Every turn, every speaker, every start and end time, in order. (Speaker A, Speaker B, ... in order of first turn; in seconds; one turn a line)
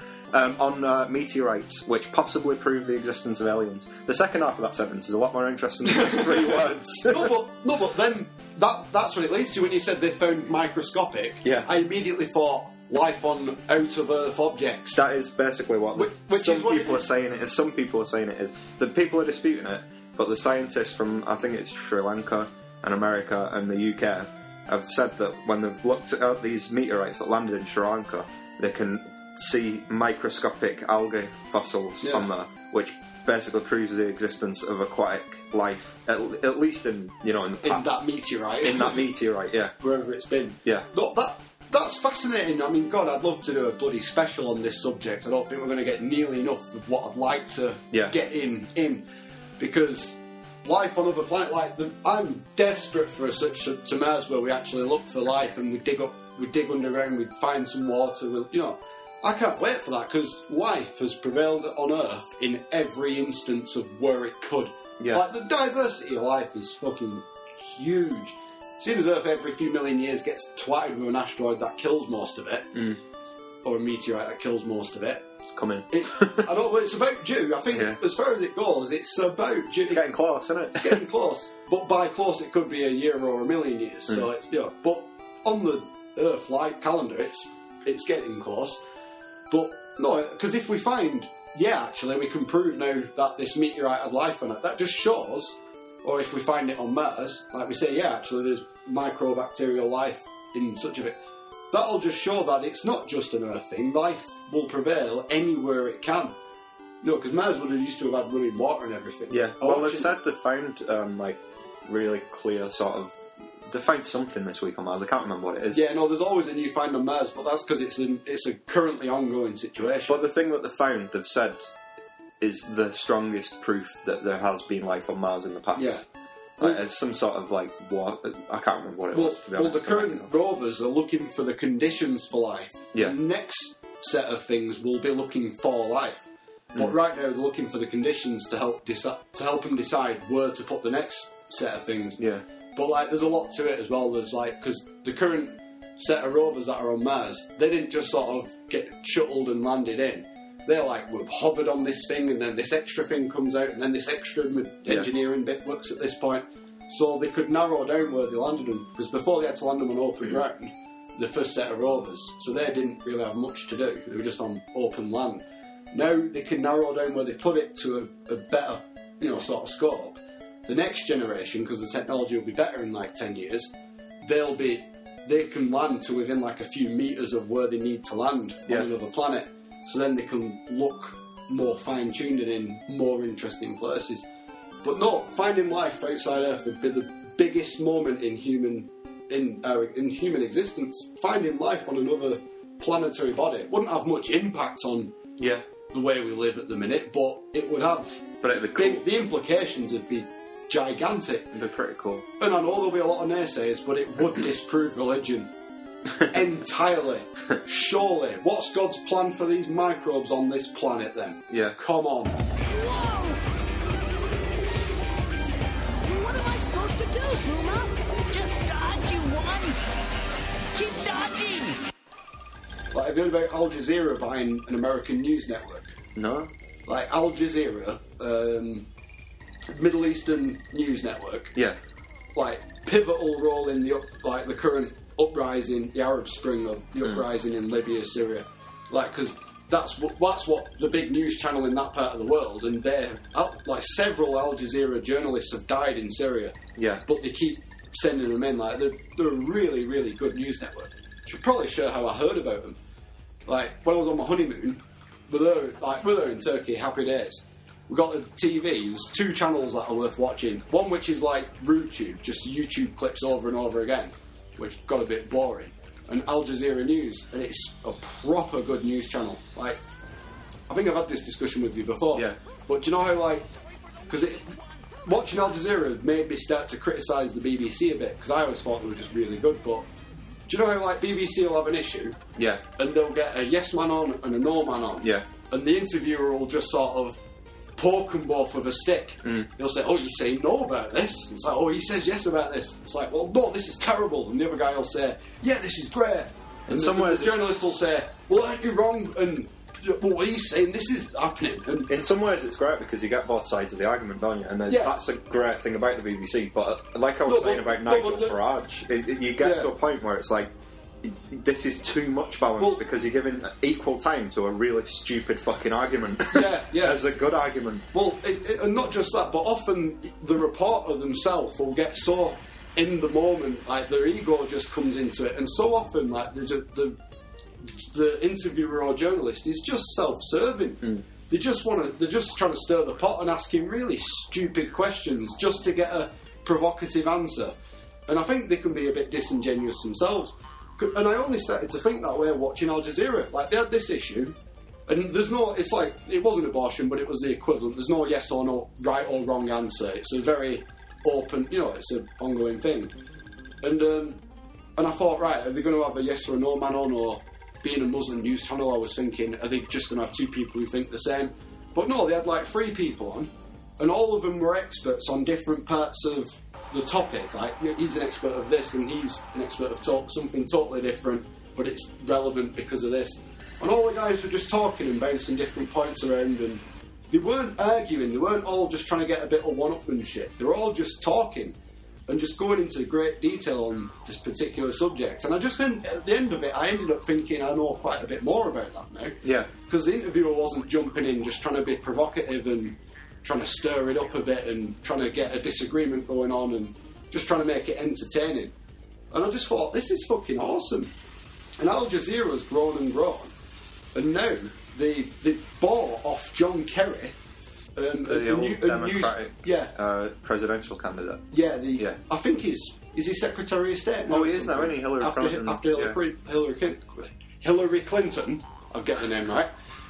Speaker A: 0.3-7.3
Speaker B: 5.8-15.0
Speaker A: 11.4-11.7
Speaker A: 14.9-38.0
Speaker B: 15.9-17.1
Speaker B: 32.0-32.3
Speaker B: 37.6-39.1
Speaker A: 38.6-39.7
Speaker B: 39.8-49.0
Speaker B: 49.6-72.7
Speaker A: 72.7-73.0
Speaker B: 73.6-75.2
Speaker A: 75.5-76.5
Speaker B: 75.9-80.1
Speaker A: 77.7-78.0
Speaker A: 79.9-81.0
Speaker B: 80.7-88.8
Speaker B: 89.5-101.2
Speaker B: 101.7-106.3
Speaker B: 107.0-110.1
Speaker A: 109.3-115.8
Speaker B: 115.7-120.2
Speaker A: 120.0-121.6
Speaker A: 122.4-126.0
Speaker B: 125.7-126.0
Speaker A: 126.6-130.3
Speaker B: 129.1-142.2
Speaker A: 142.2-142.4
Speaker B: 142.7-184.2
Speaker B: 184.8-195.2
Speaker A: 195.4-195.6
Speaker B: 195.9-201.5
Speaker A: 198.4-199.1
Speaker A: 201.5-202.2
Speaker B: 202.4-205.5
Speaker B: 206.2-212.4
Speaker A: 211.5-211.8
Speaker C: 212.7-213.4
Speaker C: 216.0-219.8
Speaker C: 220.7-221.8
Speaker B: 222.9-226.0
Speaker A: 226.1-226.5
Speaker B: 226.9-228.9
Speaker B: 229.7-231.6
Speaker B: 232.3-252.8
Speaker A: 246.8-247.0
Speaker B: 253.4-269.8
Speaker B: 270.7-273.5
Speaker A: 272.1-272.4
Speaker B: 274.1-279.9
Speaker B: 280.5-282.2
Speaker A: 282.4-282.6
Speaker B: 282.8-287.2
Speaker A: 285.0-285.3
Speaker B: 287.8-301.9
Speaker A: 289.2-289.5
Speaker A: 296.7-297.5
Speaker A: 301.9-310.5
Speaker B: 304.7-304.9
Speaker B: 307.2-308.4
Speaker B: 309.4-309.7
Speaker A: 311.0-317.9
Speaker B: 316.3-317.0
Speaker B: 317.9-327.0
Speaker B: 327.6-337.5
Speaker B: 338.1-344.4
Speaker B: 344.9-352.9
Speaker B: 353.6-354.2
Speaker B: 354.8-381.6
Speaker B: 382.1-398.5
Speaker A: 389.2-389.5
Speaker B: 399.1-400.9
Speaker B: 401.6-403.3
Speaker B: 403.9-407.1
Speaker B: 407.8-409.7
Speaker A: 408.0-412.0
Speaker B: 411.3-419.5
Speaker A: 414.1-416.0